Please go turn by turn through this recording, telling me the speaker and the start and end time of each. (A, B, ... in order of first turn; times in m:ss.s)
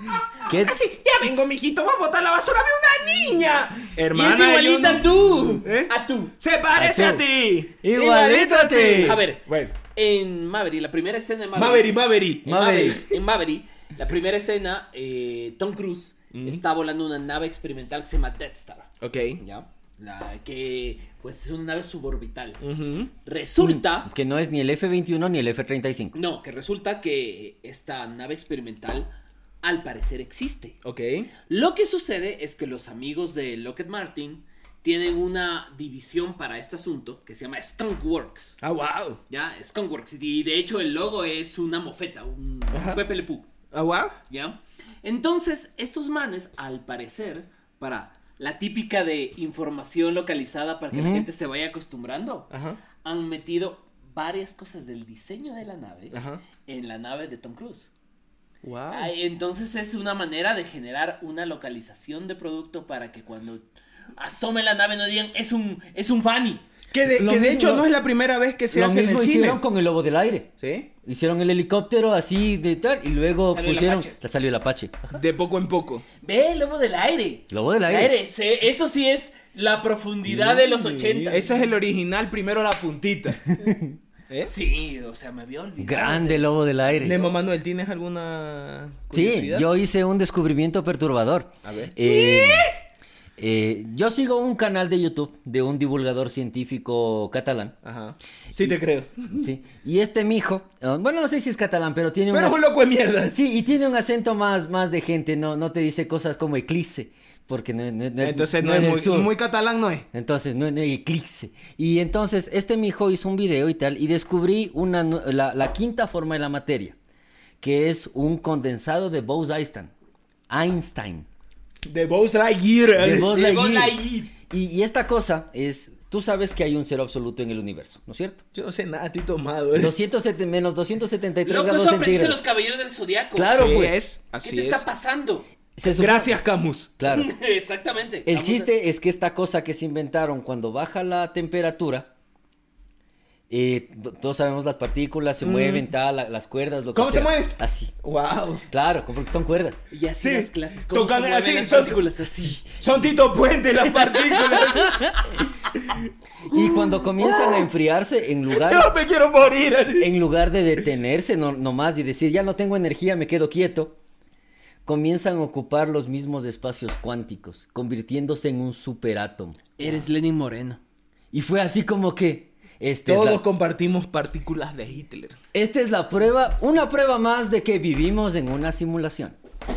0:00.5-0:00.8 A
0:00.5-0:05.1 B
0:04.1-0:06.3 C
0:05.6-0:09.7 B
0:06.8-0:07.2 A
0:07.8-0:09.2 A
0:07.9-0:18.9 C
0:11.5-0:13.0 B
0:12.4-0:13.0 A
0:16.3-0:16.6 B
0:19.0-0:19.4 B
0:19.4-0:22.6 C
0:22.6-0:23.1 B
0:23.2-0:24.1 C
0:23.6-0:26.2 A
0:26.1-0:29.1 C
0:29.6-0:30.8 C
0:30.8-0:31.3 B
0:31.5-0:38.5 C
0:38.6-0:39.2 B
0:39.3-0:43.5 C
0:42.7-0:43.0 B
0:43.7-0:44.2 B
0:44.3-0:52.5 C
0:50.9-0:51.3 A
0:52.5-0:52.8 B
0:53.0-0:57.9 C
0:56.1-0:56.4 B
0:58.6-0:59.1 B
0:58.9-1:03.6 C
1:04.2-1:06.6 C
1:06.9-1:09.6 B
1:07.1-1:07.9 A
1:08.7-1:10.5 A
1:10.6-1:10.9 B
1:11.0-1:15.0 A
1:13.5-1:14.2 C
1:15.1-1:16.0 B
1:16.2-1:21.4 C
1:17.5-1:18.1 A
1:20.3-1:21.4 A
1:21.3-1:23.6 B
1:23.6-1:24.0 A
1:24.5-1:26.5 C
1:25.8-1:27.2 A
1:27.0-1:29.7 B
1:29.1-1:32.7 A
1:31.6-1:32.7 B
1:33.4-1:37.7 A
1:37.8-1:39.5 B
1:39.4-1:42.6 A
1:42.3-1:43.4 B
1:43.3-1:49.3 A
1:48.2-1:50.1 B
1:50.1-1:57.0 A
1:57.6-1:59.9 A
2:00.5-2:01.3 A
2:01.8-2:03.8 B
2:03.0-2:08.4 A
2:03.3-2:04.3 C
2:08.5-2:09.9 B
2:09.8-2:12.4 A
2:11.4-2:13.9 C
2:13.4-2:14.0 A
2:13.5-2:14.8 B
2:14.4-2:15.5 C
2:15.8-2:16.4 A
2:15.8-2:16.9 B
2:17.0-2:17.3 A
2:17.0-2:18.7 C
2:18.3-2:22.1 A
2:23.5-2:27.9 A
2:25.4-2:25.9 B
2:26.9-2:28.6 B
2:28.7-2:29.8 A
2:29.9-2:32.6 C
2:30.2-2:32.1 B
2:32.6-2:35.1 B
2:34.6-2:35.1 A
2:35.8-2:37.7 B
2:36.5-2:38.9 A
2:38.5-2:40.1 B
2:40.0-2:44.0 A
2:44.9-2:50.0 A
2:49.8-2:50.8 C
2:51.3-2:53.4 A
2:53.1-2:55.4 B
2:55.5-2:59.4 A